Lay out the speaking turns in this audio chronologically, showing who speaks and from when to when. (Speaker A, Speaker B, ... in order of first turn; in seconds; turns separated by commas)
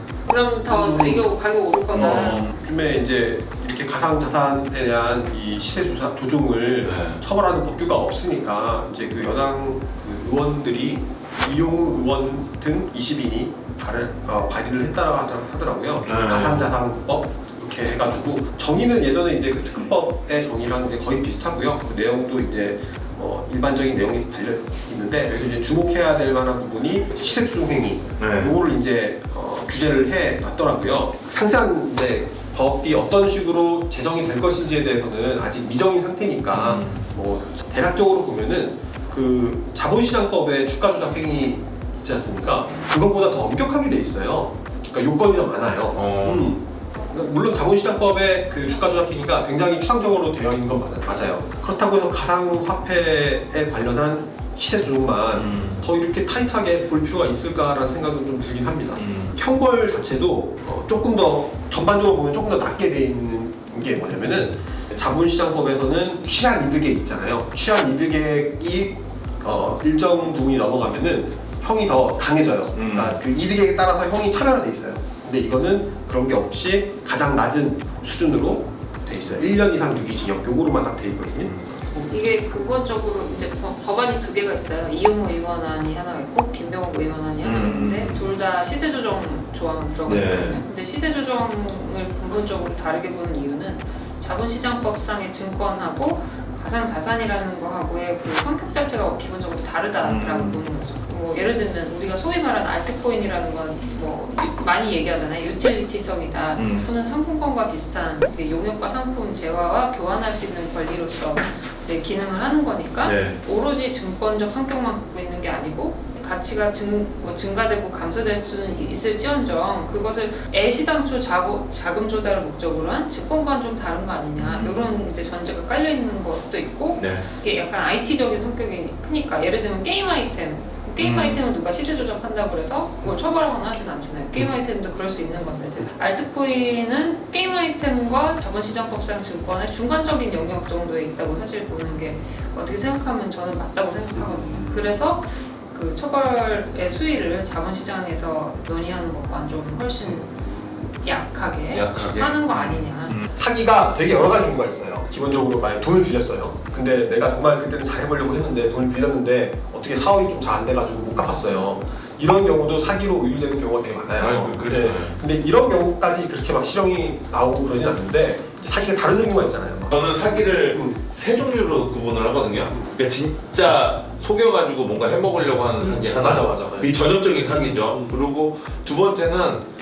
Speaker A: 0.3-2.5, Speaker B: 0.7-1.3, Speaker B: 1.9-82.1, Speaker C: 1.9-2.5, Speaker C: 6.8-7.2, Speaker C: 16.0-16.7, Speaker C: 28.2-28.6, Speaker C: 36.5-37.0, Speaker C: 45.9-46.5, Speaker C: 55.3-55.8, Speaker C: 59.0-59.4, Speaker C: 72.7-73.2, Speaker A: 82.1-150.3, Speaker C: 87.4-88.3, Speaker C: 90.0-90.6, Speaker C: 100.0-100.6, Speaker C: 106.5-106.9, Speaker C: 113.0-113.4, Speaker C: 124.3-124.9, Speaker C: 127.0-127.3, Speaker C: 131.0-131.4, Speaker B: 144.1-145.0, Speaker B: 150.1-150.9, Speaker A: 150.9-153.2, Speaker C: 151.7-153.3, Speaker B: 153.3-171.0, Speaker C: 164.1-165.2, Speaker C: 169.9-179.6, Speaker B: 172.7-172.9, Speaker B: 175.8-178.2